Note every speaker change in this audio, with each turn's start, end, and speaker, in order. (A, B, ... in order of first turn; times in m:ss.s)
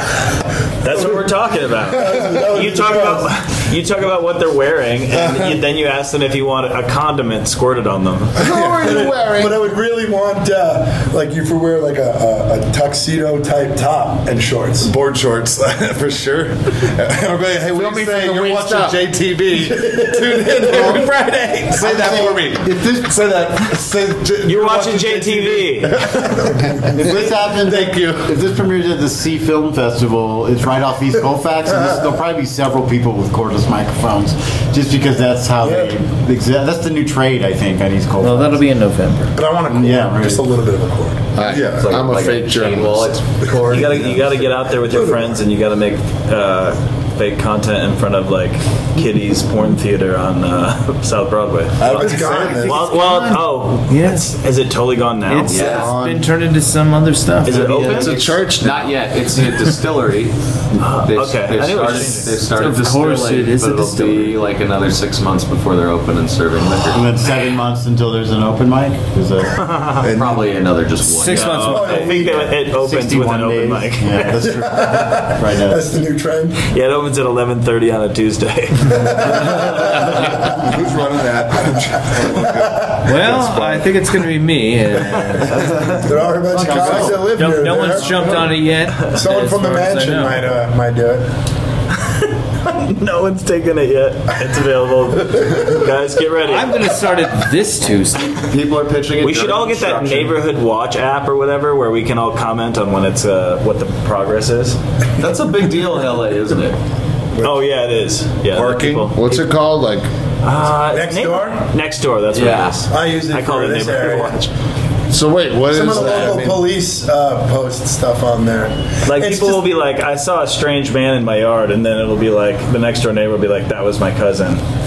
0:00.8-0:08.4 A
0:01.8-0:03.3 B
0:05.1-0:05.5 C
0:08.4-0:09.6 D
0:08.4-0:09.0 C
0:08.4-0:14.9 B
0:14.8-0:28.3 C
0:17.7-0:19.0 D
0:19.8-0:21.0 B
0:21.7-0:23.1 E
0:24.4-0:26.2 A
0:26.9-0:38.6 E
0:35.6-0:35.9 C
0:38.2-0:39.3 F
0:39.3-0:41.3 B
0:39.6-0:40.5 E
0:41.4-0:43.1 D
0:41.4-0:41.9 C
0:41.7-0:44.6 G
0:43.6-0:52.0 A
0:44.8-0:45.4 B
0:51.8-0:52.8 C
0:51.8-0:52.8 B
0:52.6-0:55.9 A
0:53.0-0:54.3 F
0:55.3-0:57.7 F
0:55.5-0:55.9 G
0:55.6-0:56.2 D
0:57.4-0:58.2 A
0:57.4-1:07.1 G
0:57.9-0:59.0 D
1:00.8-1:02.4 A
1:02.5-1:04.4 F
1:06.9-1:09.6 E
1:09.6-1:10.1 A
1:10.0-1:12.0 G
1:11.0-1:12.3 F
1:11.2-1:14.3 A
1:11.6-1:12.5 B
1:12.0-1:15.9 E
1:14.4-1:16.6 B
1:16.7-1:19.6 A
1:18.9-1:20.3 B
1:19.7-1:23.9 C
1:22.2-1:23.0 B
1:23.0-1:25.6 F
1:25.7-1:26.0 G
1:25.9-1:31.3 B
1:26.6-1:27.2 G
1:26.6-1:27.2 C
1:26.7-1:30.5 F
1:32.0-1:36.9 A
1:36.4-1:38.4 F
1:38.3-1:40.4 G
1:39.2-1:44.8 A
1:45.2-1:46.8 G
1:47.3-1:47.6 B
1:47.4-1:49.4 A
1:48.5-1:49.0 C
1:49.1-1:50.1 D
1:50.4-1:54.5 A
1:50.9-1:51.6 B
1:52.3-1:52.8 G
1:52.9-1:54.4 B
1:55.1-1:56.6 D
1:55.7-1:59.6 B
1:55.9-1:56.5 C
1:59.0-2:04.6 A